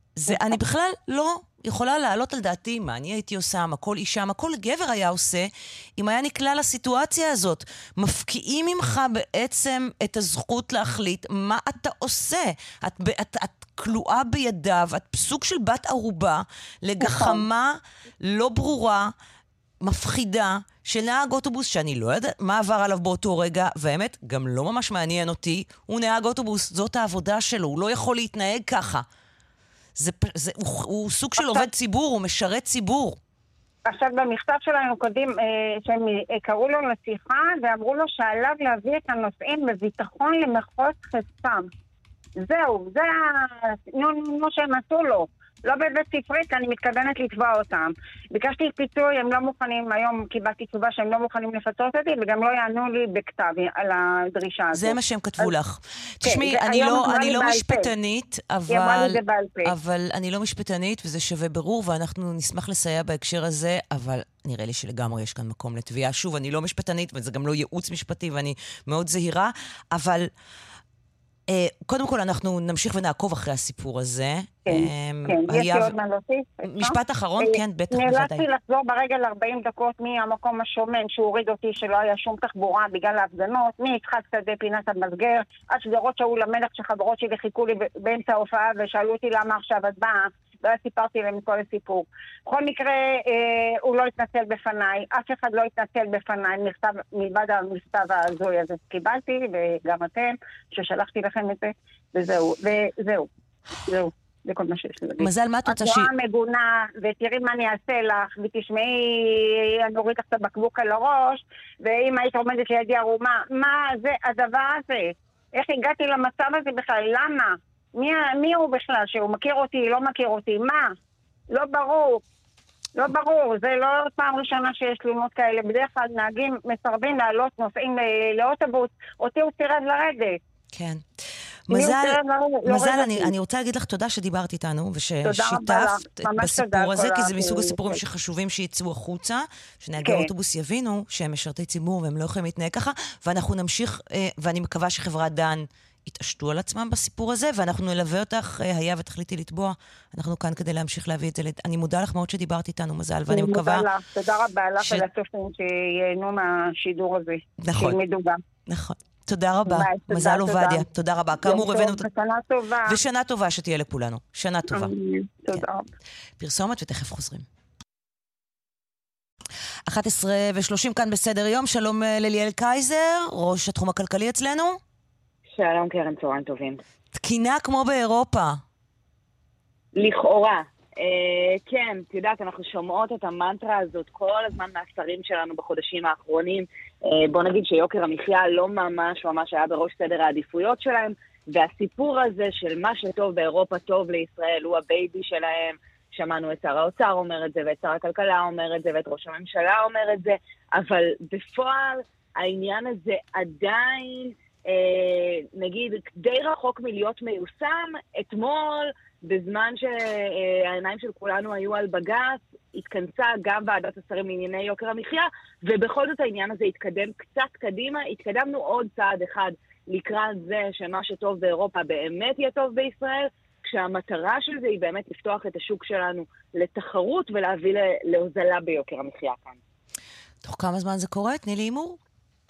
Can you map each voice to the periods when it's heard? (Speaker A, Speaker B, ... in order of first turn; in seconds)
Speaker A: 0.2-19.1, 19.8-29.0, 30.0-33.2, 54.7-70.3, 71.5-75.9, 76.6-78.4, 105.2-106.1, 130.7-131.0, 131.7-153.8, 157.6-158.0, 158.7-162.1, 162.8-164.9, 166.4-167.4, 169.9-174.8, 177.1-178.6, 230.4-232.0
Speaker B: 0.3-0.6, 17.0-17.4, 31.4-31.7, 33.9-41.7, 42.4-55.5, 56.2-57.9, 58.7-59.7, 74.7-120.9, 121.5-122.2, 122.9-130.4, 131.7-133.3, 135.2-138.0, 140.0-140.3, 153.3-158.4, 159.7-160.9, 161.4-163.0, 164.7-165.8
Speaker C: 175.6-176.8, 179.9-229.6